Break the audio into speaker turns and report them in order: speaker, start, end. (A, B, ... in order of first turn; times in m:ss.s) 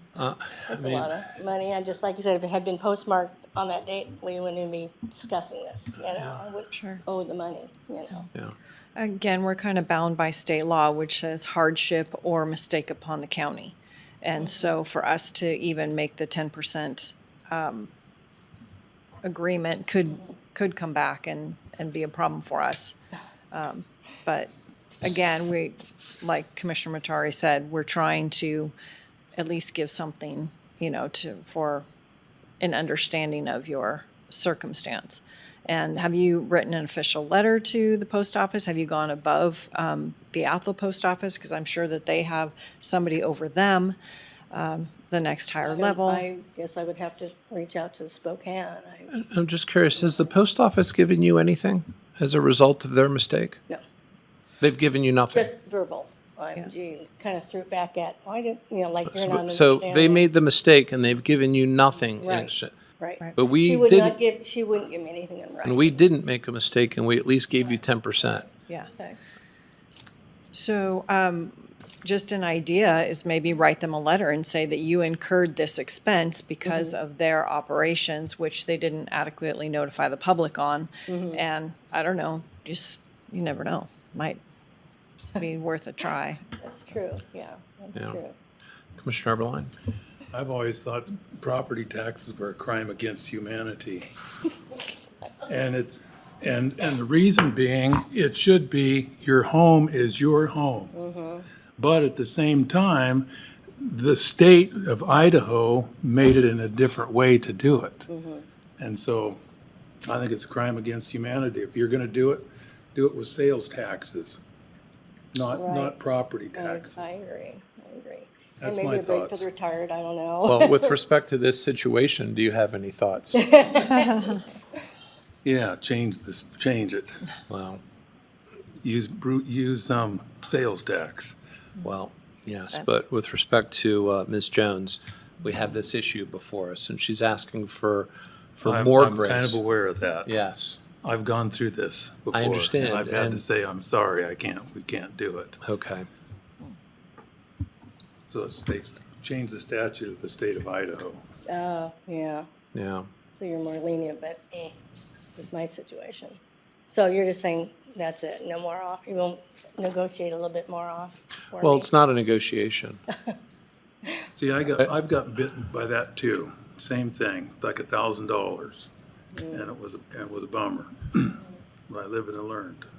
0:00.2-0:01.1 A
0:00.7-0:08.3 B
0:06.7-0:07.0 C
0:09.0-0:17.9 C
0:19.2-0:23.0 C
0:23.5-0:28.7 C
0:29.4-0:31.9 C
0:32.6-0:44.0 C
0:44.5-0:46.3 C
0:45.6-0:49.1 B
0:49.1-0:53.6 A
0:50.0-0:50.3 B
0:54.6-0:55.5 A
0:55.3-1:00.3 B
0:59.1-1:02.7 A
1:02.2-1:06.0 B
1:03.4-1:04.2 A
1:05.6-1:08.5 A
1:08.9-1:09.2 B
1:10.5-1:24.4 C
1:16.7-1:16.9 B
1:21.1-1:21.4 B
1:25.4-1:26.4 C
1:26.6-1:28.4 B
1:28.0-1:28.2 A
1:29.0-1:29.7 A
1:30.3-1:34.1 D
1:35.4-1:40.9 D
1:40.9-1:41.5 B
1:41.8-1:48.1 D
1:48.1-1:48.5 B
1:48.8-1:49.4 D
1:50.1-1:54.4 D
1:55.3-1:57.2 D
1:55.5-1:56.0 B
1:56.5-2:01.0 B
1:58.6-1:59.5 D
2:00.5-2:03.4 A
2:03.4-2:04.4 B
2:05.4-2:07.2 D
2:07.5-2:07.8 A
2:08.8-2:11.4 D
2:11.8-2:19.6 A
2:18.6-2:20.3 D
2:20.2-2:20.8 A
2:21.0-2:25.6 D
2:22.3-2:23.4 A
2:25.6-2:26.1 A
2:28.3-2:31.2 D
2:31.5-2:32.5 B
2:32.7-2:33.1 A
2:33.4-2:34.8 B
2:35.4-2:36.4 B
2:36.9-2:41.9 B
2:41.6-2:43.0 A
2:44.4-2:48.9 D
2:49.3-2:49.7 B
2:49.5-2:52.9 D